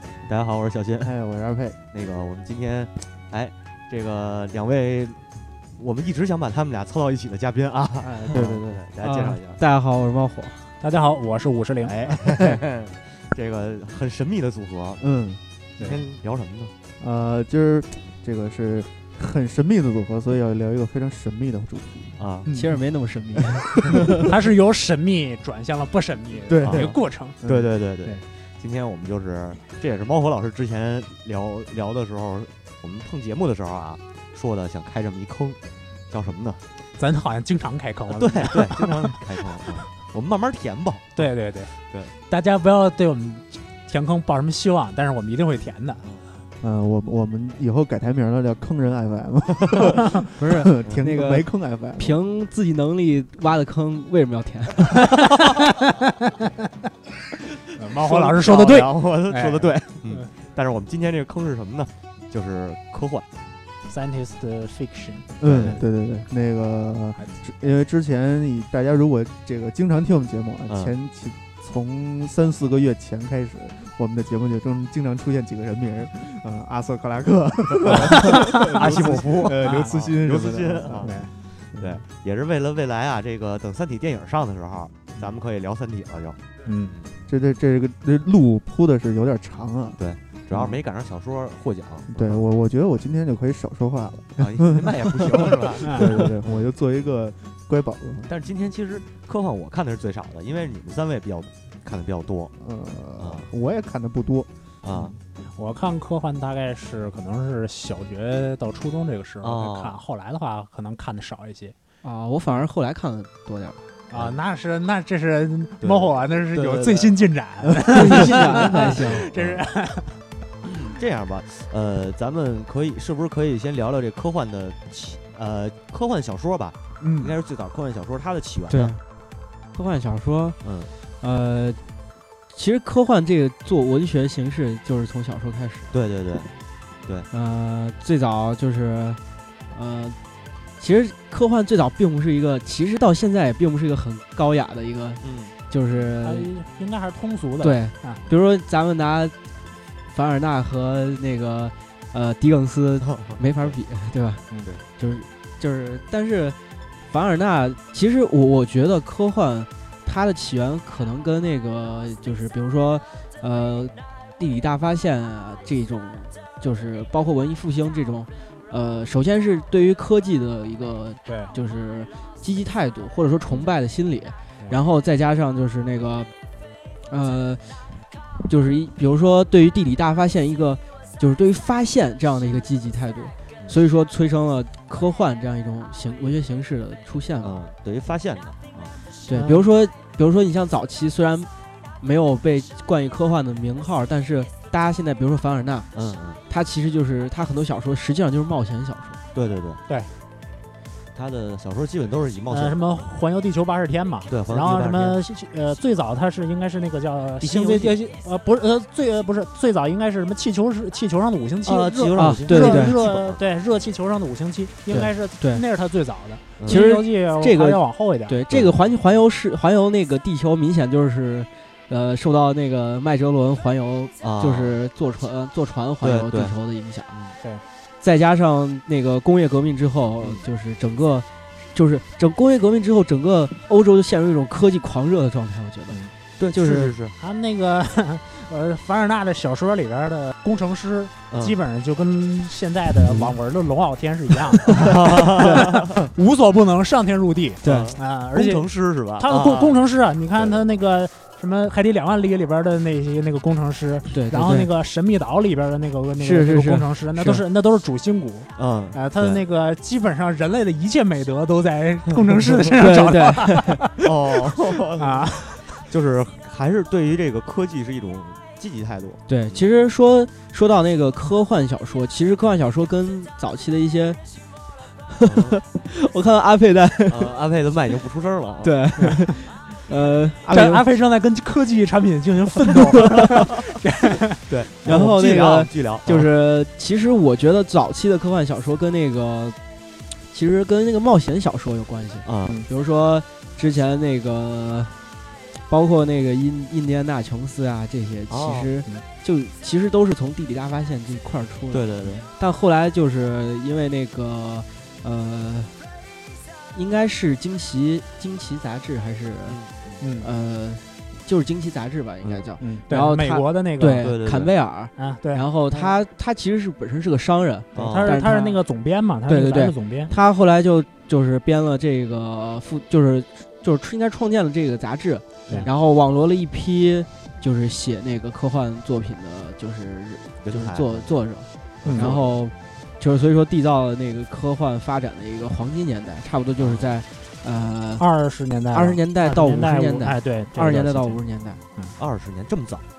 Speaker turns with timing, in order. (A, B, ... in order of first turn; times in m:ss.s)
0:00.2-0:01.1 A
0:01.0-0:01.8 B
0:01.9-0:05.2 A
0:05.8-0:09.6 A
0:08.0-0:08.4 C
0:08.3-0:08.8 B
0:09.0-0:10.6 D
0:10.8-0:12.4 C
0:12.0-0:15.0 A
0:15.0-0:15.4 B
0:15.8-0:16.7 A
0:17.0-0:22.8 B
0:22.2-0:22.5 A
0:22.5-0:24.3 D
0:23.4-0:24.1 B
0:24.3-0:27.4 C
0:26.5-0:27.7 B
0:26.6-0:35.6 A
0:36.1-0:36.6 A
0:37.0-0:39.2 C
0:38.2-0:41.3 A
0:41.2-0:41.7 C
0:42.3-0:46.0 C
0:46.6-0:52.1 B
0:50.4-0:55.0 D
0:54.9-0:56.5 C
0:57.8-1:00.3 C
0:57.9-1:03.2 A
1:03.9-1:05.8 C
1:05.4-1:21.1 B
1:05.4-1:05.8 A
1:10.7-1:10.9 A
1:17.8-1:27.1 A
1:18.0-1:19.8 C
1:21.0-1:21.3 C
1:21.8-1:22.0 B
1:26.6-1:26.9 C
1:27.3-1:30.0 B
1:30.0-1:32.4 A
1:30.5-1:30.8 B
1:32.1-1:38.3 B
1:34.4-1:36.7 A
1:35.8-1:36.2 C
1:38.3-1:42.5 A
1:42.6-1:44.5 B
1:43.2-1:43.5 A
1:44.8-1:45.2 A
1:45.6-1:51.7 C
1:49.4-1:50.0 A
1:52.0-1:53.8 D
1:54.1-2:00.1 C
1:54.1-1:54.4 A
1:55.8-1:57.2 A
1:57.9-1:59.3 D
1:58.4-1:59.6 A
2:00.6-2:08.9 A
2:07.0-2:07.3 C
2:08.7-2:09.0 D
2:09.7-2:10.6 D
2:10.6-2:10.9 A
2:11.2-2:11.8 D
2:12.5-2:15.9 D
2:15.9-2:16.5 A
2:17.3-2:19.2 D
2:19.7-2:20.2 D
2:20.8-2:26.5 D
2:25.2-2:25.5 A
2:26.2-2:28.2 C
2:27.6-2:29.3 D
2:30.1-2:34.4 D
2:33.0-2:33.7 A
2:35.0-2:56.3 D
2:51.2-2:51.5 C
2:57.1-2:57.8 D
2:58.5-3:07.6 D
3:07.4-3:09.0 A
3:09.2-3:11.5 D
3:09.3-3:09.7 C
3:12.0-3:15.9 D
3:15.9-3:16.4 A
3:16.5-3:19.2 D
3:19.3-3:19.8 A
3:21.1-3:22.8 A
3:22.5-3:38.4 C
3:24.3-3:25.2 A
3:27.4-3:28.0 A
3:31.6-3:33.4 A
3:32.2-3:33.0 D
3:34.9-3:35.6 D
3:36.7-3:47.1 D
3:38.5-3:38.9 A
3:44.2-3:44.7 A
3:46.0-3:46.5 A
3:47.1-3:47.4 A
3:48.0-3:56.0 D
3:56.4-3:57.2 A
3:56.5-3:56.9 D
3:57.2-4:08.7 C
4:01.3-4:01.6 A
4:03.1-4:03.3 D
4:04.8-4:05.9 A
4:05.3-4:05.7 D
4:07.6-4:07.9 D
4:07.6-4:09.8 A
4:09.2-4:25.7 C
4:10.3-4:10.6 A
4:14.1-4:14.7 D
4:16.2-4:17.4 D
4:18.6-4:19.4 A
4:22.7-4:23.8 D
4:24.0-4:29.6 A
4:29.3-4:34.2 D
4:35.1-4:37.3 D
4:35.2-4:35.6 A
4:37.1-4:38.8 A
4:38.6-4:40.8 D
4:39.0-4:39.3 C
4:40.5-4:45.0 C
4:44.5-4:46.3 A
4:44.8-4:49.6 D
4:50.3-4:55.0 D
4:52.2-4:52.6 A
4:55.7-5:05.8 D
4:58.3-4:58.7 A
5:01.7-5:02.2 A
5:06.7-5:09.6 D
5:09.4-5:10.0 A
5:10.0-5:10.3 C
5:10.2-5:18.6 D
5:12.6-5:14.1 C
5:14.0-5:14.5 A
5:15.0-5:15.9 C
5:17.7-5:18.2 A
5:17.7-5:20.1 C
5:19.3-5:38.1 D
5:30.4-5:31.1 A
5:31.8-5:32.4 A
5:31.8-5:32.1 C
5:36.6-5:36.9 A
5:38.0-5:41.2 C
5:38.7-5:41.6 D
5:42.0-5:42.8 A